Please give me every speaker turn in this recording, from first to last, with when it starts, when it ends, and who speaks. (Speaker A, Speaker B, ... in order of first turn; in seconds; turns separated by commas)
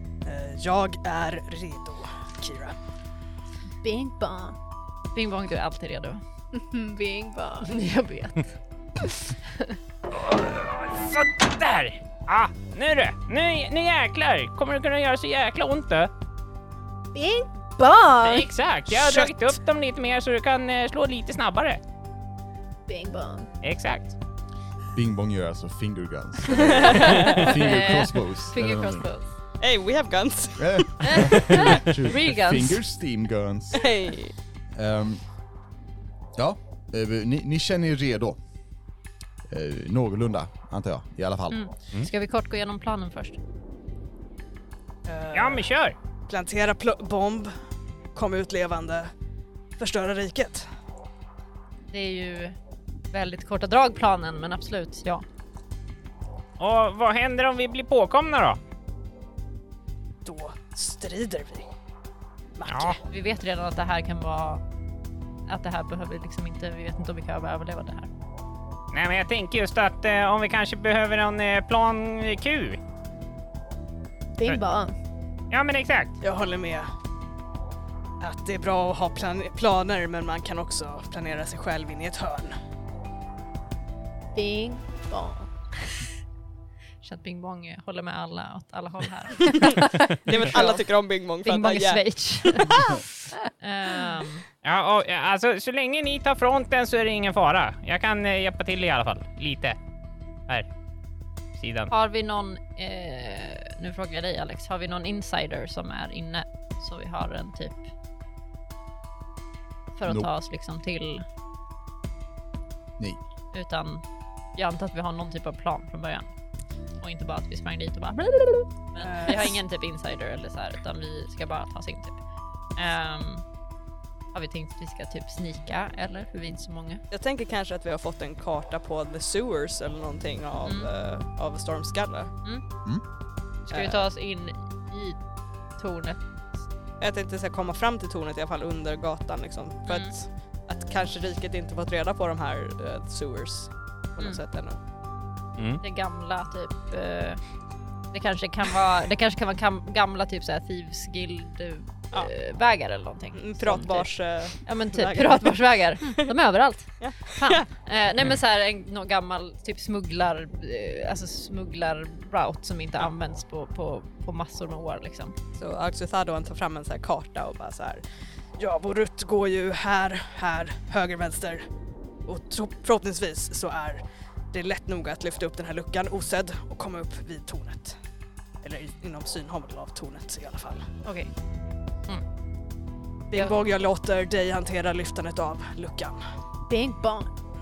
Speaker A: 0.2-2.8, Speaker B: 3.8-4.5, Speaker C: 5.1-6.2, Speaker B: 6.5-7.8, Speaker C: 7.6-8.4, Speaker C: 9.5-9.8, Speaker D: 10.2-16.1, Speaker B: 17.1-18.5, Speaker D: 18.2-21.8, Speaker A: 18.9-19.4, Speaker B: 22.9-23.5, Speaker D: 23.6-24.1, Speaker E: 24.9-29.1, Speaker A: 26.5-27.4, Speaker C: 27.1-29.2, Speaker A: 29.6-31.8, Speaker E: 30.6-33.9, Speaker C: 31.0-32.8, Speaker A: 33.7-34.3, Speaker E: 34.7-35.2, Speaker E: 36.4-38.4, Speaker E: 39.5-41.6, Speaker C: 41.5-43.4, Speaker A: 45.1-45.7, Speaker D: 45.3-46.0, Speaker A: 46.3-47.5, Speaker A: 48.1-49.1, Speaker A: 49.8-50.7, Speaker C: 51.9-52.5, Speaker C: 53.1-55.2, Speaker D: 56.6-58.6, Speaker A: 60.2-61.7, Speaker A: 62.5-63.0, Speaker D: 62.6-63.0, Speaker C: 63.1-64.6, Speaker C: 65.5-68.1, Speaker D: 68.9-72.8, Speaker B: 74.4-74.9, Speaker D: 75.5-76.2, Speaker A: 76.2-76.9, Speaker A: 78.2-82.5, Speaker B: 84.3-85.5, Speaker C: 87.0-90.8, Speaker A: 90.2-93.0, Speaker C: 91.4-92.9, Speaker C: 93.6-94.4, Speaker D: 94.6-99.8, Speaker D: 101.6-101.9, Speaker C: 101.9-107.9, Speaker C: 109.9-111.2, Speaker C: 113.5-114.0, Speaker C: 114.5-116.3, Speaker C: 117.0-122.2, Speaker A: 119.0-119.6, Speaker C: 122.8-123.4, Speaker C: 124.3-127.0, Speaker A: 127.1-132.3, Speaker C: 130.6-130.9, Speaker C: 133.7-135.2, Speaker A: 133.7-134.0, Speaker C: 135.8-136.2, Speaker A: 137.0-144.8, Speaker C: 139.9-140.1, Speaker D: 145.6-145.8, Speaker C: 145.8-147.4, Speaker C: 148.1-154.1, Speaker A: 153.3-156.2, Speaker C: 154.6-165.3, Speaker A: 157.0-157.7, Speaker A: 165.6-168.0, Speaker A: 168.6-171.6, Speaker A: 172.2-178.0, Speaker A: 178.6-180.9, Speaker C: 181.0-181.3, Speaker A: 183.3-186.2, Speaker B: 186.7-187.3